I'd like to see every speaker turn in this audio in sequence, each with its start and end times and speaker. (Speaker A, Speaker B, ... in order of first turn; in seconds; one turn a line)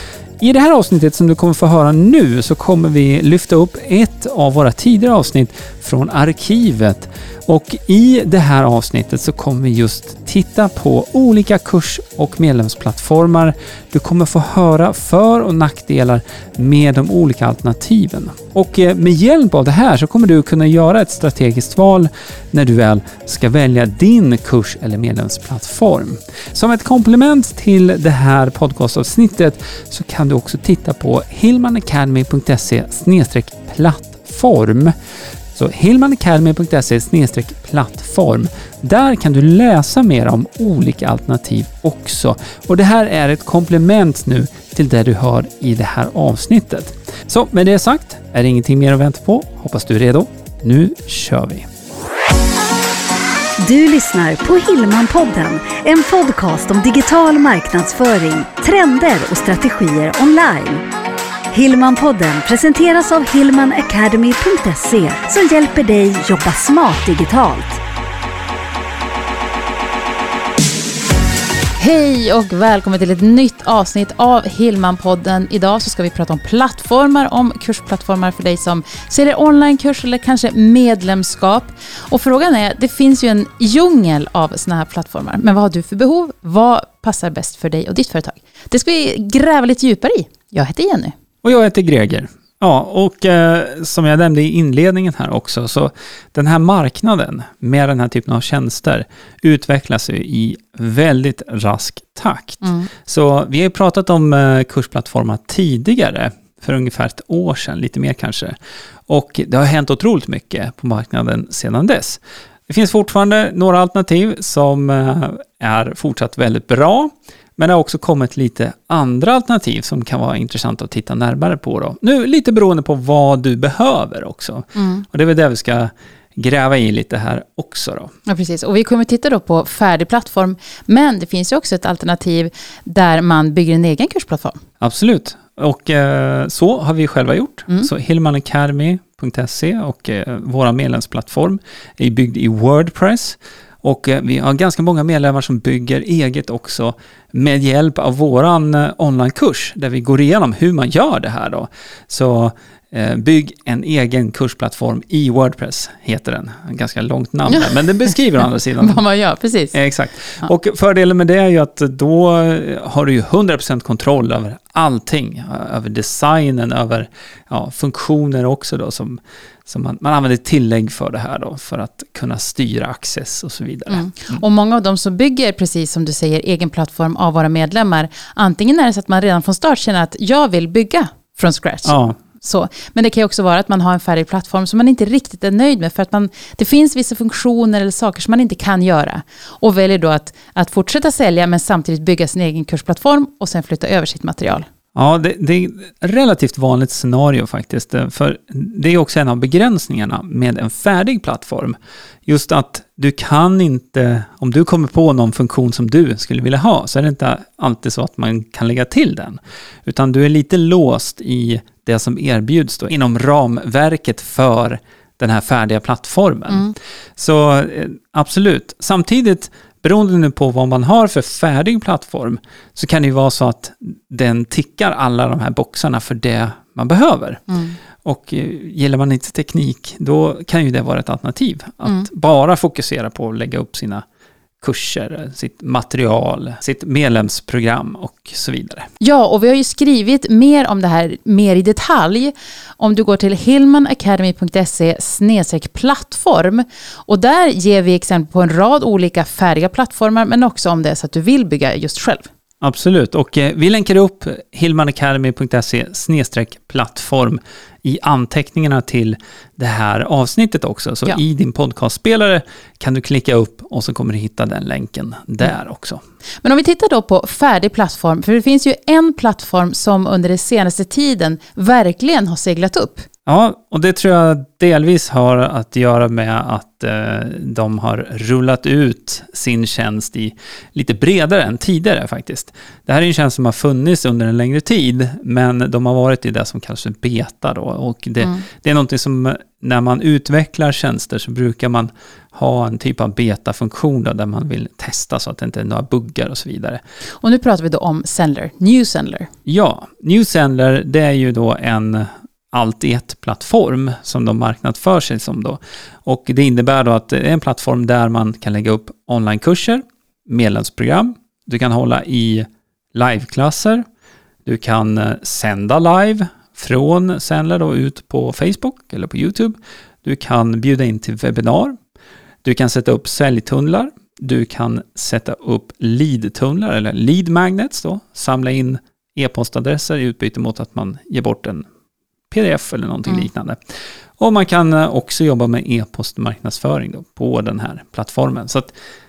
Speaker A: 0.4-34.9
Speaker A: 35.5-51.7
Speaker B: 53.6-60.9
Speaker B: 61.5-67.8
Speaker C: 71.8-91.1
Speaker A: 91.4-108.5
Speaker C: 102.6-102.9
Speaker A: 109.1-128.1
Speaker C: 124.8-125.0
Speaker C: 128.3-134.6
Speaker A: 134.8-159.0
Speaker C: 157.5-158.1
Speaker C: 158.8-159.8
Speaker A: 159.7-174.4
Speaker C: 173.9-194.7
Speaker A: 181.8-182.2
Speaker A: 194.9-234.0
Speaker C: 227.5-227.8
Speaker A: 234.6-238.9
Speaker C: 239.0-252.3
Speaker A: 252.6-266.0
Speaker C: 266.4-273.1
Speaker A: 273.2-296.8
Speaker C: 297.2-299.3
Speaker A: 299.4-313.8
Speaker A: 314.4-321.8
Speaker A: 322.4-331.6
Speaker A: 332.3-333.6
Speaker A: 334.2-338.7